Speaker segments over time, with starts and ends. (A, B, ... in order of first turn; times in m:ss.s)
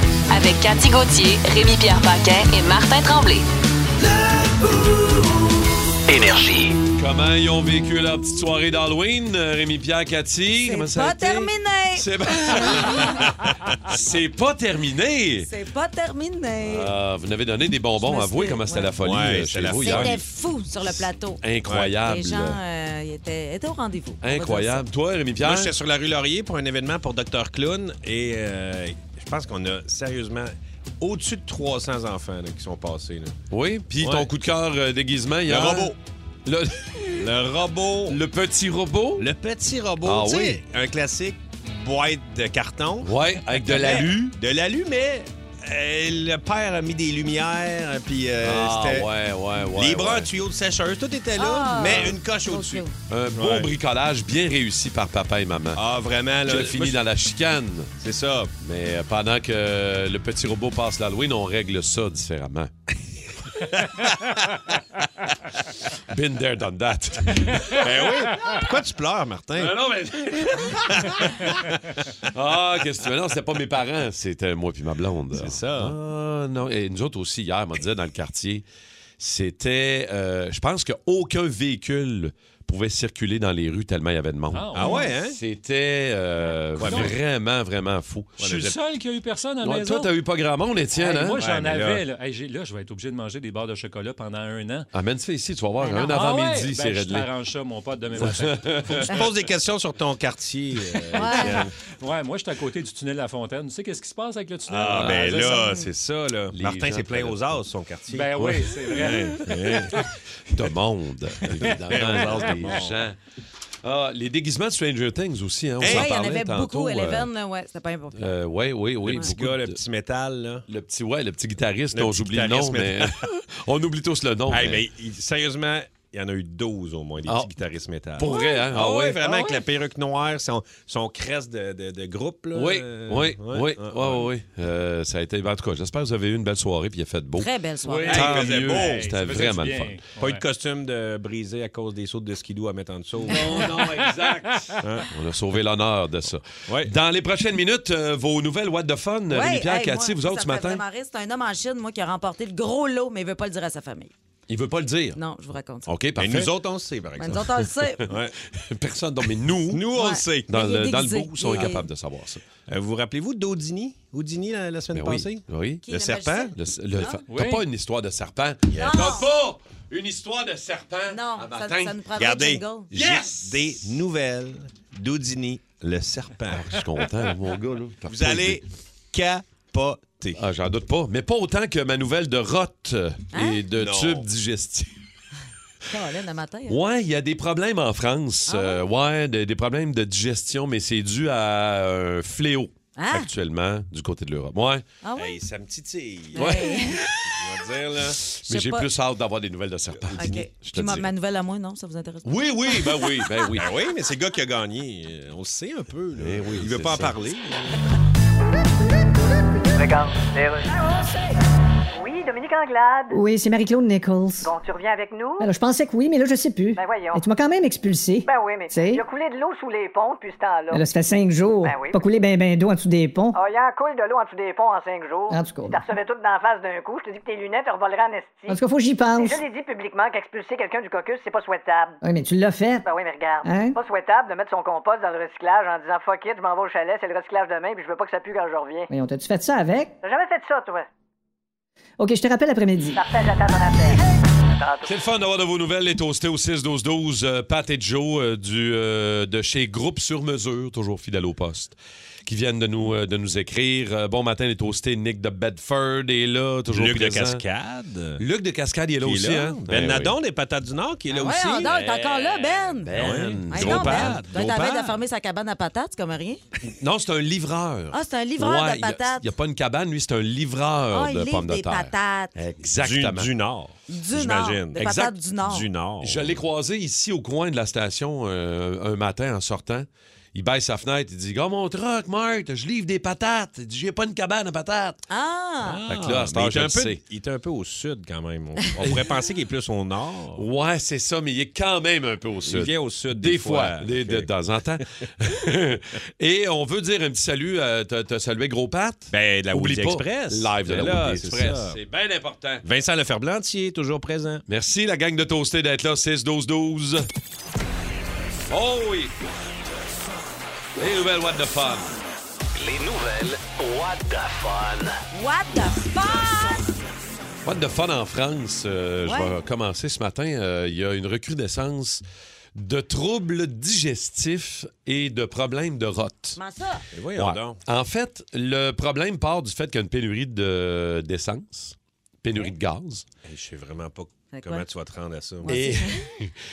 0:00.3-0:03.4 A
0:06.1-0:06.8 B
0:07.0-0:15.5 C
0:10.6-0:13.3 D
0:15.4-0:16.9 D
0:16.6-0:20.2 C
0:18.0-0:19.0 D
0:19.0-0:20.2 E
0:19.8-0:21.4 D
0:20.8-0:22.6 C
0:21.7-0:21.9 E
0:22.0-0:24.9 D
0:24.2-0:25.7 C
0:25.4-0:33.4 E
0:33.5-0:35.9 C
0:34.0-0:34.3 E
0:35.5-0:36.0 E
0:36.5-0:37.3 C
0:37.2-0:38.2 E
0:38.1-0:39.3 C
0:39.2-0:49.1 E
0:40.0-0:40.6 C
0:43.0-0:44.3 C
0:48.4-0:50.3 C
0:49.6-0:53.7 E
0:51.4-0:52.9 D
0:51.8-0:52.2 C
0:53.1-0:55.8 C
0:55.8-0:57.0 E
0:56.5-0:57.9 C
0:58.0-0:58.5 E
0:58.6-1:02.7 C
1:03.6-1:04.5 E
1:06.0-1:07.8 C
1:07.7-1:12.0 E
1:09.6-1:11.6 C
1:12.3-1:18.6 C
1:15.3-1:16.0 E
1:19.2-1:28.4 C
1:24.5-1:25.2 F
1:24.8-1:25.4 E
1:26.8-1:27.2 E
1:26.8-1:27.2 F
1:28.4-1:28.8 E
1:28.4-1:30.1 F
1:29.6-1:31.4 C
1:30.9-1:34.9 F
1:31.4-1:32.0 E
1:34.9-1:37.3 C
1:35.8-1:36.1 D
1:36.0-1:39.1 F
1:38.2-1:39.2 C
1:39.0-1:41.7 E
1:41.2-1:41.5 F
1:41.2-1:41.6 D
1:42.0-1:45.8 F
1:44.7-1:50.1 E
1:44.9-1:45.4 C
1:46.5-1:47.4 C
1:48.1-1:49.5 F
1:48.4-1:48.7 C
1:50.5-1:53.2 C
1:51.5-1:53.1 E
1:52.0-1:52.4 F
1:53.8-1:57.3 C
1:55.8-1:56.1 E
1:55.8-1:58.3 D
1:58.2-1:59.8 C
1:59.0-2:00.6 E
2:00.7-2:04.8 C
2:01.9-2:03.2 E
2:04.5-2:14.3 E
2:08.2-2:09.5 C
2:08.2-2:08.6 D
2:12.6-2:17.5 C
2:17.4-2:18.3 D
2:17.8-2:20.4 F
2:18.1-2:19.1 E
2:18.1-2:20.0 C
2:20.2-2:23.6 E
2:23.3-2:30.8 C
2:23.4-2:24.8 F
2:24.8-2:25.1 E
2:26.7-2:26.9 E
2:29.3-2:34.1 D
2:34.5-2:35.2 C
2:35.2-2:35.9 D
2:35.9-2:36.5 C
2:36.2-2:37.5 E
2:37.2-2:38.0 D
2:38.1-2:38.4 E
2:38.5-2:39.9 C
2:39.7-2:40.5 E
2:40.0-2:41.9 D
2:40.5-2:42.4 C
2:42.7-2:46.6 E
2:44.9-2:45.8 C
2:45.8-2:47.2 D
2:46.5-2:52.0 C
2:47.3-2:47.6 F
2:48.7-2:49.2 E
2:48.8-2:49.3 D
2:51.1-2:52.9 D
2:52.2-2:56.8 E
2:52.9-2:53.7 C
2:56.5-2:58.6 C
2:58.1-3:00.4 E
3:00.4-3:04.9 C
3:03.3-3:03.6 D
3:03.8-3:04.3 E
3:05.9-3:06.8 D
3:06.7-3:14.8 C
3:08.5-3:08.8 D
3:13.0-3:13.3 D
3:15.0-3:15.4 D
3:15.2-3:16.8 E
3:16.4-3:17.0 D
3:16.4-3:17.3 C
3:17.3-3:18.2 E
3:18.4-3:21.1 C
3:18.5-3:18.9 D
3:19.9-3:20.4 E
3:20.2-3:23.3 D
3:22.2-3:23.6 C
3:23.5-3:27.8 E
3:26.2-3:27.2 C
3:29.7-3:31.1 G
3:31.9-3:33.2 G
3:33.1-3:34.5 H
3:34.4-3:35.5 G
3:35.4-3:39.0 H
3:36.8-3:37.3 G
3:38.2-3:40.8 G
3:40.7-3:43.4 H
3:41.6-3:42.0 G
3:43.3-3:48.6 G
3:45.3-3:45.8 H
3:48.5-3:49.4 H
3:49.2-3:52.0 G
3:52.0-3:52.9 H
3:52.8-3:58.9 G
3:53.4-3:53.8 H
3:58.9-3:59.9 H
4:00.0-4:00.9 G
4:02.0-4:03.0 H
4:02.9-4:04.9 G
4:04.9-4:17.4 C
4:16.7-4:18.2 E
4:18.2-4:20.2 C
4:19.0-4:21.7 E
4:21.2-4:23.0 D
4:21.2-4:24.3 C
4:22.9-4:25.0 E
4:23.5-4:26.4 D
4:26.8-4:31.9 C
4:27.9-4:29.3 D
4:30.9-4:32.3 D
4:32.4-4:36.4 E
4:32.6-4:33.3 C
4:33.9-4:35.7 D
4:34.8-4:35.1 C
4:36.0-4:45.0 C
4:45.1-4:45.8 D
4:45.6-4:50.5 E
4:45.9-4:47.0 C
4:50.4-5:02.6 C
4:52.4-4:54.3 E
4:59.1-5:01.8 E
5:02.6-5:04.4 E
5:04.5-5:07.1 C
5:08.5-5:09.2 C
5:10.8-5:12.0 C
5:12.5-5:14.9 B
5:15.1-5:16.7 D
5:17.4-5:22.0 C
5:19.0-5:19.4 D
5:22.6-5:26.4 C
5:26.4-5:26.8 D
5:26.9-5:27.6 E
5:27.2-5:33.0 C
5:33.2-5:35.6 E
5:34.3-5:34.7 D
5:35.4-5:36.0 D
5:35.5-5:36.4 C